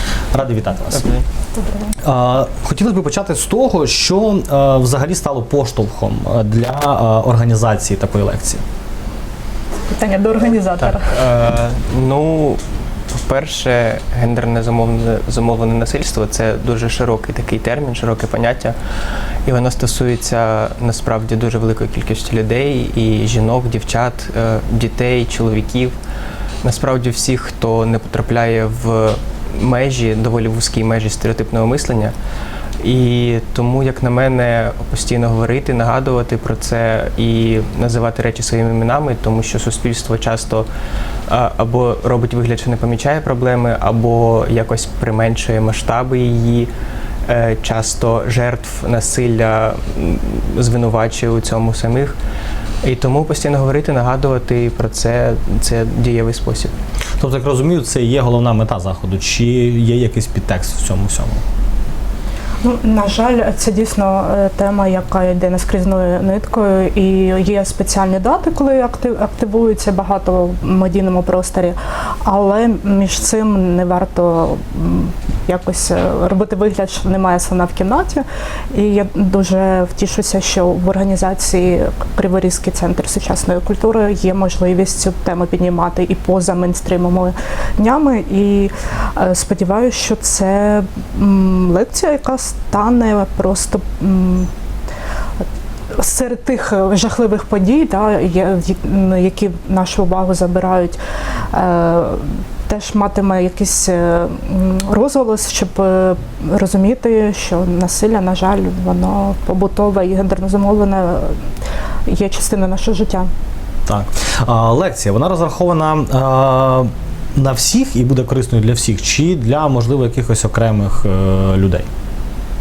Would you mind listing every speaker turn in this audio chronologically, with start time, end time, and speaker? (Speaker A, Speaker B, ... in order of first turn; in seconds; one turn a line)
Speaker A: 0.3-1.1
Speaker B: 1.0-1.2
Speaker A: 2.0-8.6
Speaker C: 9.9-11.2
Speaker B: 10.8-18.8
Speaker B: 19.4-26.0
Speaker B: 26.6-32.1
Speaker B: 32.8-40.7
Speaker B: 41.3-46.7
Speaker B: 47.3-52.2
Speaker B: 52.8-56.7
Speaker A: 57.2-61.4
Speaker C: 62.6-94.5
Speaker C: 95.9-101.0
Speaker C: 101.5-111.5
Speaker C: 112.1-113.3
Speaker A: 113.9-121.9